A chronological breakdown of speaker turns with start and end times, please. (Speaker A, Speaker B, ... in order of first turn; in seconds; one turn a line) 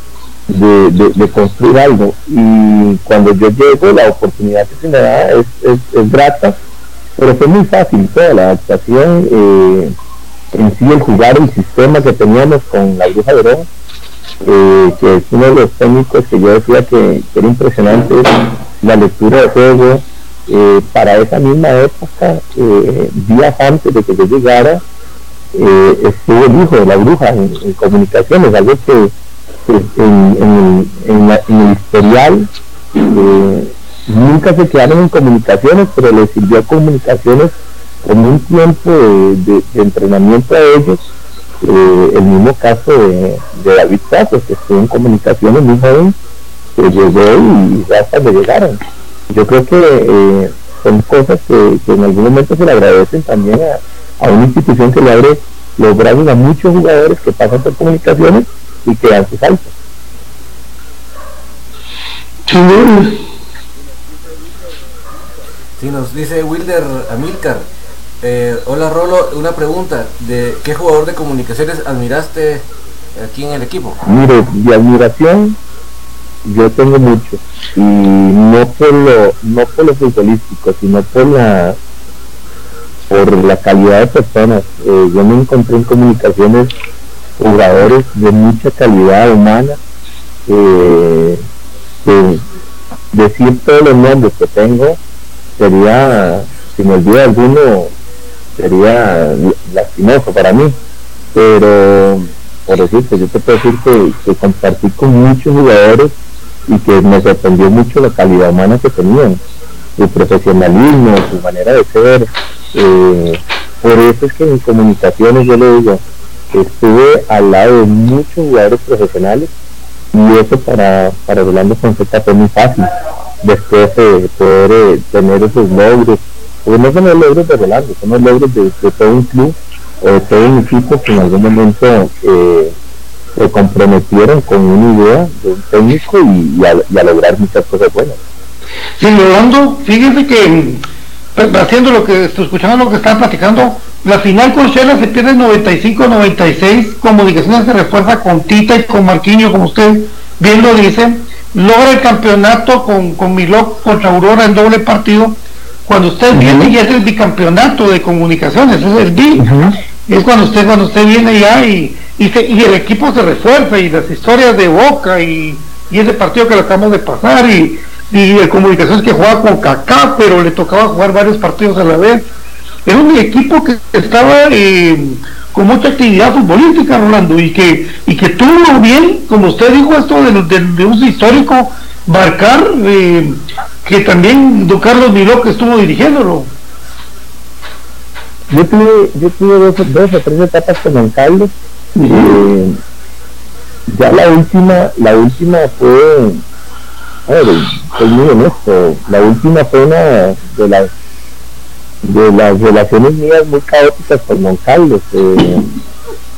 Speaker A: 0.5-6.5
Speaker A: 7.2-9.9
Speaker A: 10.5-13.7
Speaker A: 14.4-24.8
Speaker A: 25.5-29.1
Speaker A: 29.6-32.5
Speaker A: 33.0-41.0
Speaker A: 41.6-46.1
Speaker A: 46.8-48.8
Speaker A: 49.3-59.7
Speaker B: 62.5-63.2
Speaker C: 65.8-67.7
Speaker C: 68.2-74.0
Speaker A: 74.0-75.6
Speaker A: 76.4-81.8
Speaker A: 83.1-86.7
Speaker A: 87.4-89.8
Speaker A: 90.5-91.4
Speaker A: 92.0-92.4
Speaker A: 93.1-95.0
Speaker A: 95.6-97.9
Speaker A: 98.6-100.8
Speaker A: 101.3-106.1
Speaker A: 106.7-109.4
Speaker A: 110.0-116.0
Speaker A: 116.5-119.5
Speaker A: 120.1-132.7
Speaker A: 133.3-138.2
Speaker B: 139.0-140.8
Speaker B: 141.3-159.5
Speaker A: 156.3-156.7
Speaker A: 159.3-159.7
Speaker B: 160.1-172.3
Speaker B: 172.8-186.5
Speaker A: 188.5-192.8
Speaker B: 192.0-192.4
Speaker A: 193.9-196.4
Speaker A: 197.3-200.9
Speaker A: 202.0-205.8